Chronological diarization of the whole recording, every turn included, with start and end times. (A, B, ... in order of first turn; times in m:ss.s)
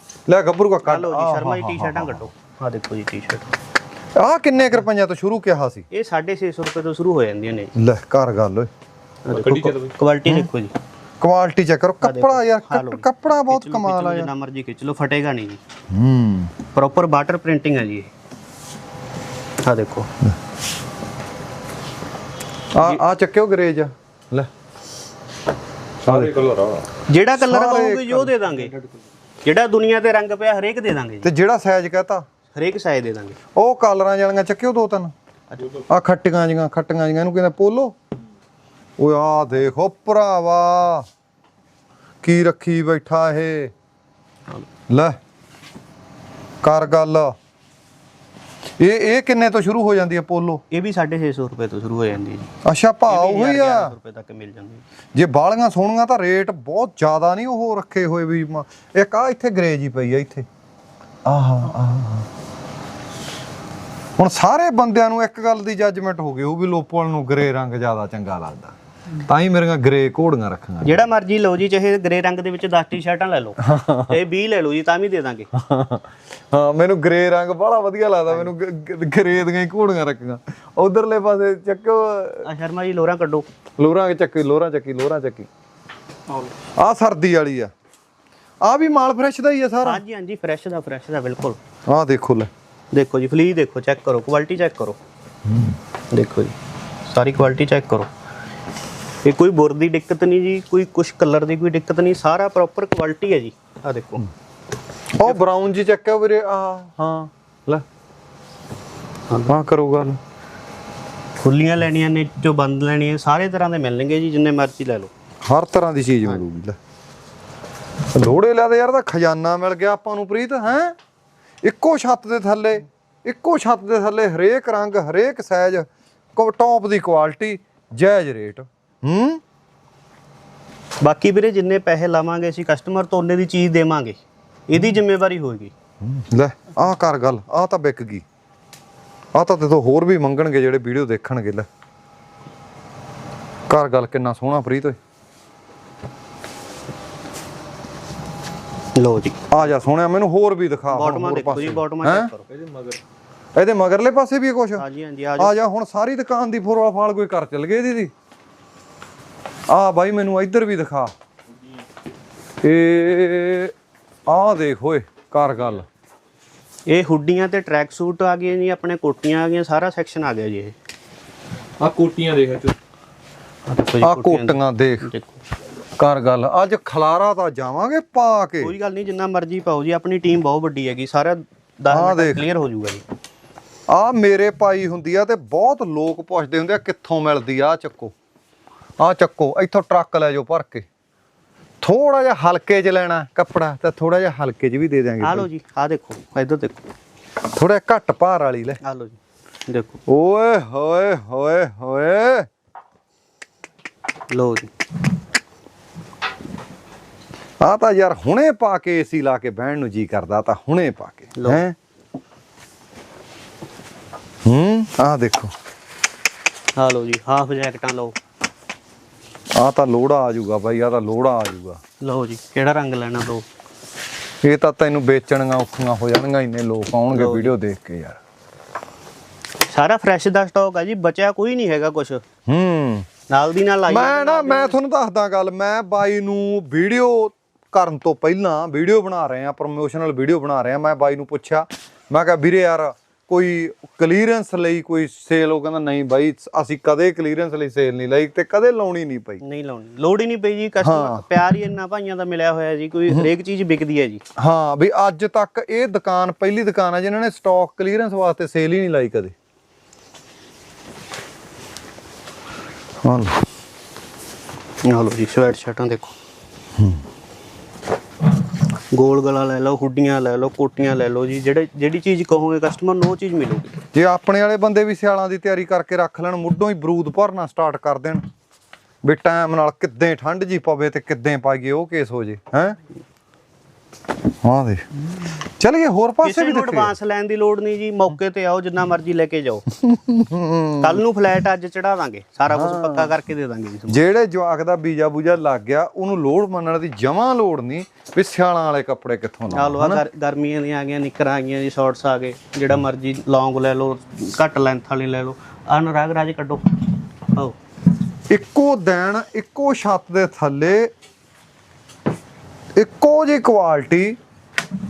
0:00.3-0:02.3 A
0:00.8-0:03.5 B
0:04.2-0:05.9 A
0:05.9-0:07.7 B
0:07.8-0:08.7 A
0:09.2-0:10.8 B
0:09.3-0:09.9 C
0:11.2-0:14.3 A
0:12.0-0:15.6 B
0:15.9-0:16.5 A
0:16.7-0:18.1 B
0:19.6-0:20.1 B
0:22.7-0:24.5 A
0:26.0-0:26.8 A
0:26.1-0:26.6 C
0:27.1-0:28.7 B
0:27.3-0:28.4 A
0:29.4-0:31.3 B
0:31.2-0:32.2 A
0:32.5-0:33.4 B
0:33.6-0:35.1 A
0:35.5-0:35.8 B
0:35.8-0:38.0 A
0:39.0-0:41.1 A
0:42.2-0:43.7 A
0:44.9-0:45.2 A
0:46.6-0:47.4 A
0:48.8-0:50.6 A
0:50.7-0:52.5 B
0:52.6-0:53.9 A
0:53.0-0:54.8 B
0:55.1-1:00.5 A
1:01.2-1:02.3 A
1:04.2-1:11.1 A
1:10.8-1:15.5 B
1:13.6-1:14.2 A
1:15.5-1:22.4 A
1:22.4-1:23.4 B
1:23.8-1:25.5 A
1:26.8-1:27.7 A
1:28.6-1:30.0 A
1:29.8-1:31.6 B
1:31.9-1:32.5 A
1:32.9-1:35.0 B
1:35.4-1:35.8 A
1:36.1-1:36.6 B
1:37.1-1:38.1 B
1:39.2-1:44.3 B
1:45.1-1:47.8 A
1:49.3-1:49.6 B
1:49.5-1:50.2 A
1:51.4-1:55.1 B
1:55.4-1:56.8 A
1:58.1-2:01.0 A
2:01.6-2:09.4 A
2:11.0-2:15.7 B
2:16.0-2:18.2 A
2:19.3-2:21.7 A
2:23.7-2:25.0 A
2:29.0-2:29.4 B
2:29.5-2:32.3 A
2:30.9-2:32.4 B
2:32.5-2:33.0 C
2:33.6-2:34.8 A
2:34.8-2:35.5 B
2:35.4-2:38.1 A
2:39.7-2:41.1 A
2:42.6-2:43.7 A
2:44.3-2:45.9 A
2:46.9-2:50.8 B
2:51.8-2:52.8 C
2:53.6-2:55.4 B
2:54.0-2:55.1 A
2:56.0-2:58.7 A
2:58.6-3:03.0 B
3:01.9-3:02.4 A
3:03.9-3:08.1 A
3:09.0-3:10.9 A
3:11.8-3:15.5 A
3:15.2-3:16.8 B
3:17.5-3:18.8 A
3:18.8-3:20.0 B
3:20.1-3:22.5 A
3:24.3-3:24.7 B
3:27.6-3:31.8 A
3:31.4-3:31.6 B
3:34.4-3:35.5 A
3:36.8-3:38.2 B
3:39.6-3:41.8 A
3:42.0-3:43.4 B
3:44.4-3:48.2 A
3:47.1-3:47.5 B
3:49.7-3:52.2 B
3:52.5-3:53.1 A
3:53.3-3:54.8 B
3:53.9-4:09.4 A
4:09.4-4:14.2 B
4:10.8-4:11.2 A
4:14.4-4:19.3 A
4:23.0-4:23.4 A
4:24.8-4:26.1 B
4:26.8-4:27.0 A
4:28.9-4:33.8 B
4:33.9-4:38.2 A
4:39.0-4:42.8 A
4:44.4-4:44.9 A
4:45.6-4:46.9 A
4:46.2-4:49.7 B
4:49.8-4:51.0 A
4:50.8-4:54.0 B
4:52.5-4:53.2 A
4:53.9-5:00.0 A
4:59.5-5:07.6 B
5:08.3-5:10.9 A
5:12.8-5:14.2 A